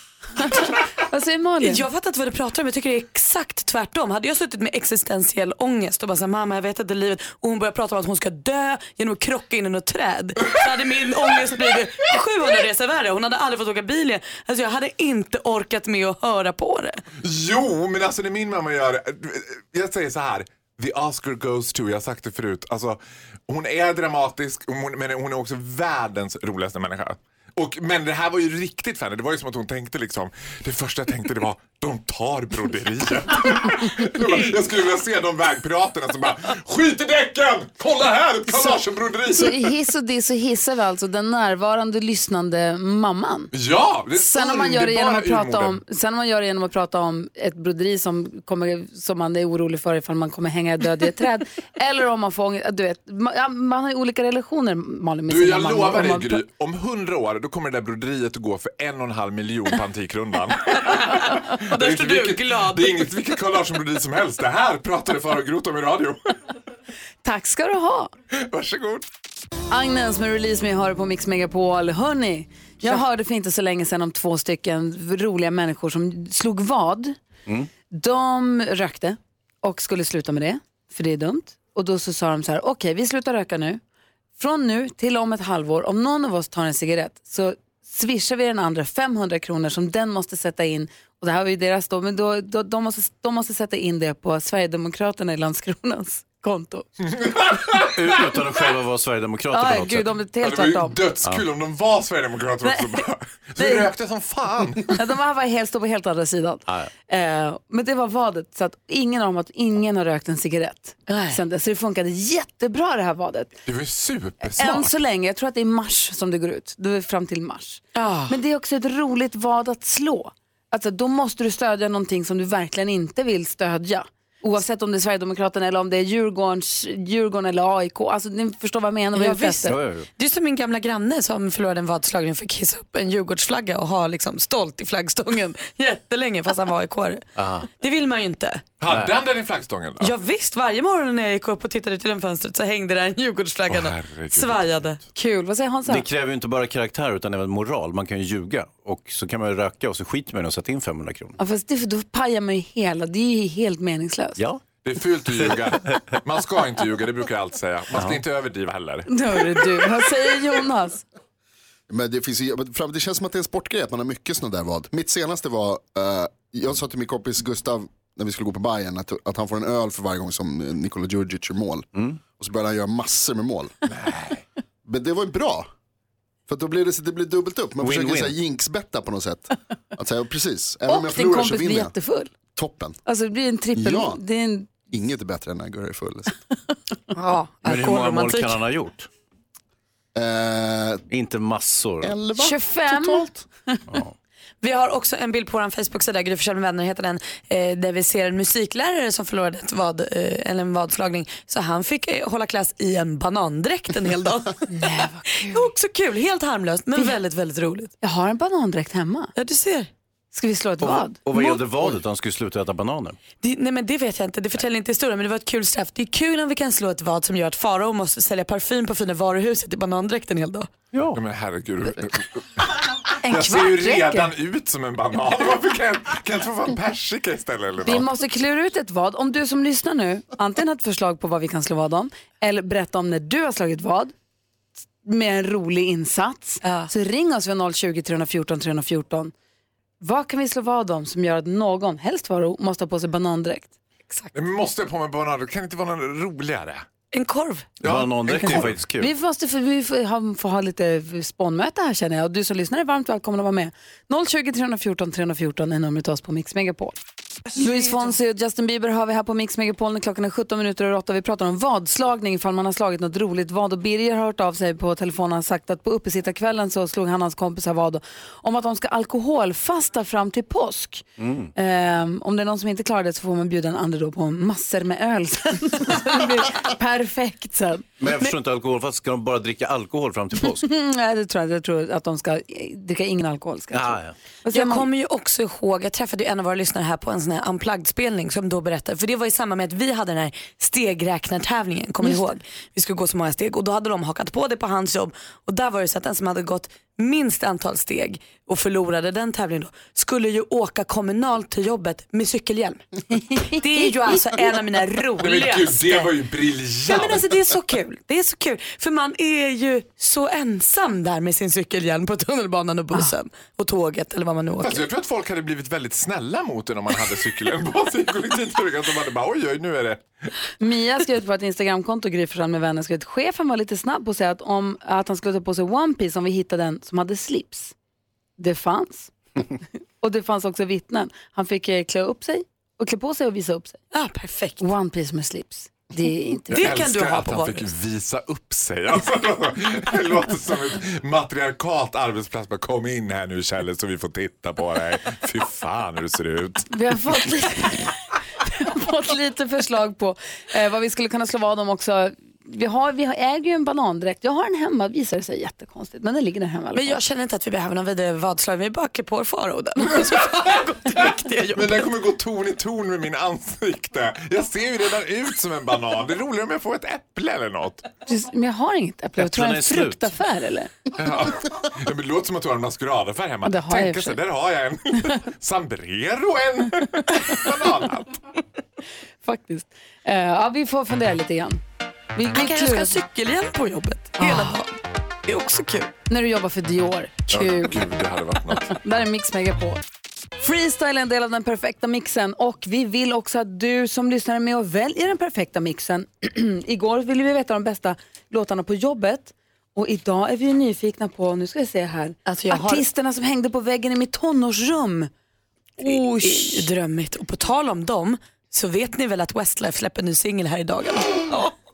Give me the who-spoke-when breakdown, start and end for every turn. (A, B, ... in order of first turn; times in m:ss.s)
0:00.4-0:01.8 A
0:01.6-0:17.0 B
0:11.3-0:11.6 C
0:17.2-0:39.7 C
0:39.3-0:43.5 A
0:43.5-0:45.8 C
0:44.1-0:56.4 A
0:55.3-1:06.3 C
1:00.9-1:03.1 B
1:07.2-1:08.1 A
1:08.3-1:09.0 C
1:09.7-1:17.2 A
1:17.9-1:23.8 A
1:24.4-1:36.9 A
1:37.0-1:38.4 C
1:37.8-1:40.1 D
1:39.5-1:41.0 A
1:40.4-1:45.0 C
1:42.6-1:43.0 A
1:43.6-1:43.9 A
1:44.9-1:53.5 A
1:51.1-1:51.4 B
1:53.6-1:54.9 C
1:54.4-2:09.8 A
1:57.9-1:58.3 B
2:09.1-2:17.2 B
2:09.7-2:10.1 D
2:17.4-2:17.7 D
2:17.8-2:18.6 B
2:18.8-2:20.1 C
2:20.0-2:25.0 B
2:23.7-2:24.8 C
2:25.1-2:26.0 A
2:25.9-2:31.4 D
2:31.4-2:34.4 A
2:34.4-2:34.6 D
2:34.8-2:39.8 C
2:35.3-2:36.0 D
2:37.9-2:38.2 D
2:39.1-2:41.0 A
2:41.9-2:53.7 E
2:53.9-2:54.4 C
2:54.8-2:55.7 E
2:56.5-3:01.9 E
2:57.8-2:58.4 D
3:00.9-3:02.3 A
3:02.5-3:03.0 E
3:03.0-3:04.7 A
3:03.7-3:04.2 E
3:04.9-3:06.3 E
3:07.1-3:08.6 B
3:07.6-3:09.1 D
3:10.1-3:11.0 E
3:11.1-3:12.2 D
3:12.0-3:13.4 E
3:12.4-3:13.8 A
3:14.6-3:27.9 B
3:24.7-3:25.7 A
3:28.0-3:29.3 A
3:29.4-3:29.9 B
3:30.3-3:31.2 A
3:30.8-3:33.2 D
3:33.4-3:40.7 B
3:40.9-3:41.2 D
3:41.1-3:42.4 C
3:43.2-3:44.3 A
3:43.3-3:48.1 C
3:47.8-3:54.1 A
3:55.0-3:59.3 A
3:56.6-3:56.9 B
4:00.0-4:03.7 A
4:04.3-4:06.9 C
4:07.1-4:07.7 B
4:07.8-4:08.8 C
4:07.8-4:09.1 D
4:09.0-4:17.0 A
4:17.5-4:37.8 A
4:31.2-4:31.5 D
4:38.0-4:40.6 D
4:40.4-4:44.8 A
4:43.7-4:44.1 D
4:44.5-5:02.8 B
5:03.1-5:03.9 A
5:03.4-5:06.1 B
5:05.2-5:07.4 C
5:06.8-5:14.9 B
5:14.6-5:20.1 C
5:20.6-5:27.7 A
5:28.4-5:29.1 A
5:30.0-5:33.8 A
5:33.9-5:34.6 B
5:34.6-5:36.7 A
5:36.5-5:37.7 B
5:36.5-5:46.7 C
5:46.7-5:47.9 A
5:48.4-5:57.0 A
5:56.7-6:01.9 B
5:59.8-6:07.9 C
6:08.0-6:10.7 A
6:09.2-6:10.1 D
6:11.0-6:18.2 C
6:13.4-6:14.2 A
6:19.2-6:21.6 A
6:22.1-6:23.0 A
6:22.3-6:24.7 B
6:24.2-6:24.5 A
6:25.2-6:25.9 B
6:26.1-6:27.8 A
6:27.3-6:28.8 C
6:28.6-6:29.8 A
6:30.4-6:45.1 A
6:42.2-6:42.8 B
6:45.8-6:46.7 A
6:45.8-6:51.5 B